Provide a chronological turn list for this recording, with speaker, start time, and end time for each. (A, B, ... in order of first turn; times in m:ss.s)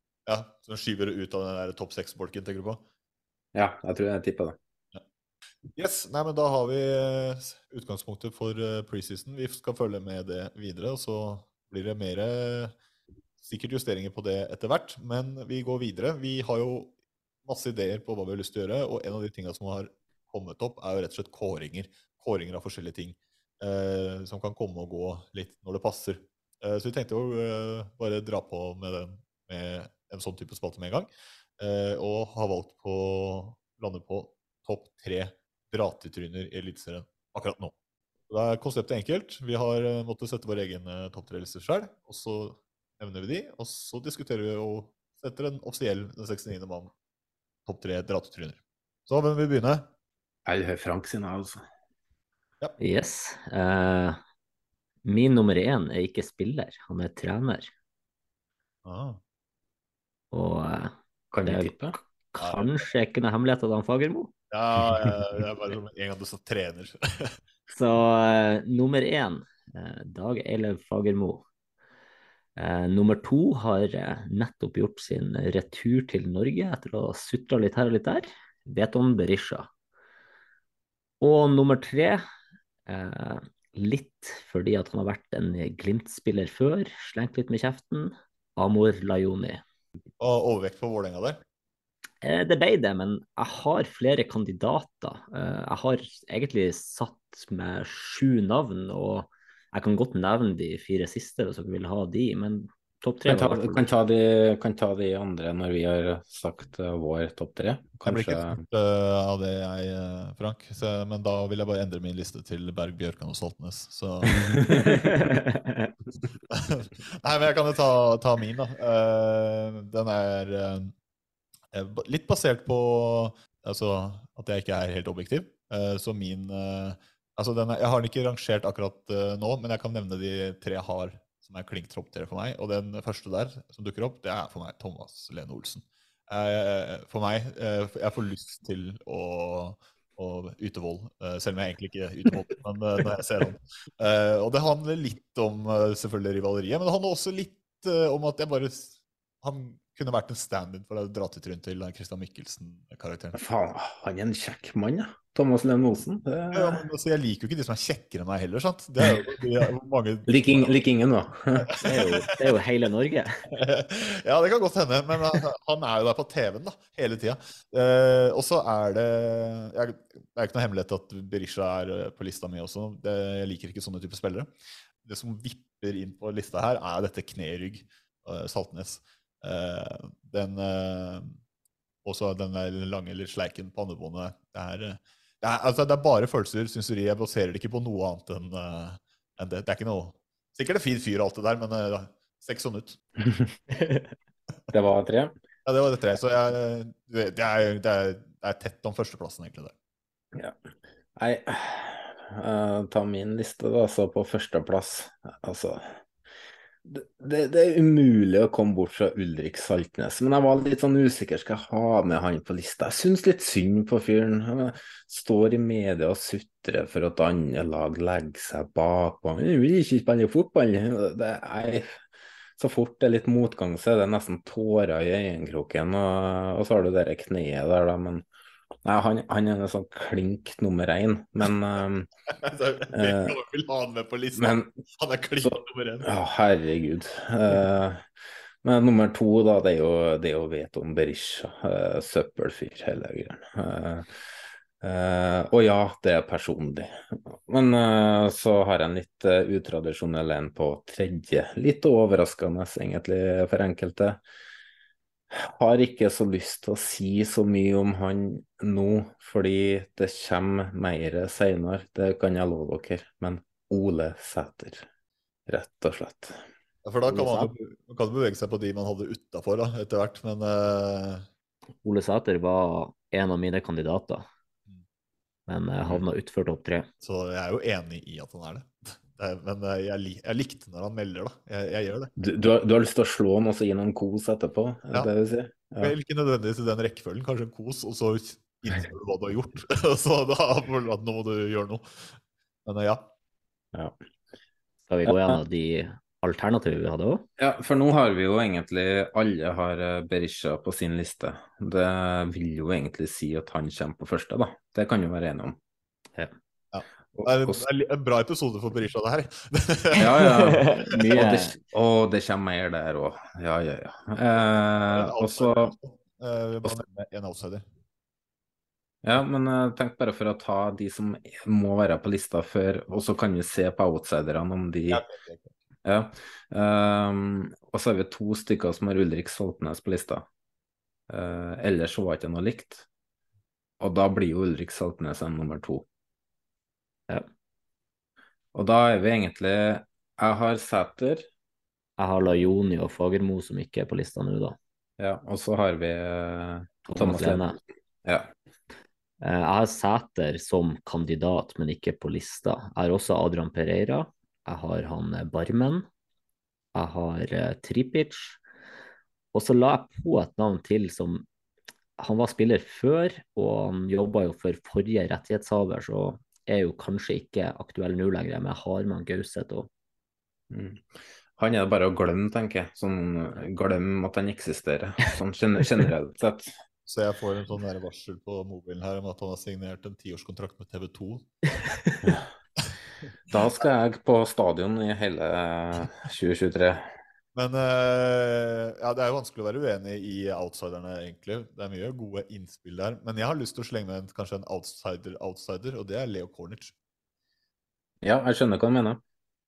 0:00.3-0:02.8 A
0:03.5-0:04.6 B
0:05.8-0:12.8 A
0:13.4-0:16.9 A
0:17.4-0:37.7 A
0:38.3-0:46.9 A
0:47.7-0:49.9 A
0:50.5-0:51.6 B
0:52.8-0:54.2 C
0:55.0-0:57.7 C
0:58.8-0:59.2 A
1:00.3-1:04.3 C
1:01.3-1:02.0 B
1:02.4-1:02.8 A
1:04.5-1:07.4 A
1:07.7-1:11.4 C
1:12.6-1:19.7 C
1:21.2-1:22.2 C
1:22.9-1:29.6 C
1:30.2-1:31.4 A
1:32.2-1:43.8 C
1:43.3-1:48.6 B
1:48.0-1:54.6 A
1:54.6-1:55.0 B
1:54.7-1:55.9 C
1:56.5-2:00.9 A
2:01.7-2:33.4 A
2:33.3-2:36.8 B
2:36.5-2:40.8 A
2:40.3-2:41.8 B
2:41.6-2:42.3 A
2:41.8-2:43.3 C
2:43.5-2:54.5 A
2:55.0-3:01.4 A
3:02.0-3:13.0 A
3:14.7-3:15.3 B
3:15.7-3:19.7 A
3:21.2-3:26.0 B
3:26.8-3:42.0 B
3:42.6-3:48.3 B
3:48.8-3:52.1 B
3:52.4-3:56.1 A
3:52.9-3:53.4 B
3:54.4-3:54.7 B
3:55.4-3:58.0 B
3:58.6-4:04.1 B
4:04.8-4:14.2 B
4:15.3-4:24.9 B
4:25.5-4:26.4 B
4:26.8-4:31.3 A
4:27.1-4:27.4 C
4:31.8-4:34.3 C
4:35.5-4:36.9 C
4:37.0-4:42.1 A
4:42.2-4:46.0 B
4:45.8-4:53.1 A
4:54.9-4:57.2 C
4:55.1-4:55.4 B
4:57.4-5:05.6 B
5:06.7-5:10.5 A
5:07.1-5:07.6 B
5:10.0-5:15.8 B
5:10.4-5:11.5 C
5:14.9-5:17.6 A
5:19.0-5:25.0 B
5:24.9-5:25.5 A
5:25.8-5:30.3 B
5:31.1-5:32.9 B
5:33.8-5:35.8 B
5:38.5-5:41.2 B
5:42.0-5:44.6 C
5:45.0-5:47.5 B
5:46.9-5:47.6 C
5:49.2-5:55.9 C
5:56.8-5:58.4 C
5:59.3-6:01.2 C
6:02.0-6:09.7 C
6:10.5-6:16.5 B
6:16.9-6:21.8 A
6:23.3-6:26.9 B
6:27.4-6:36.7 A
6:38.0-6:39.0 B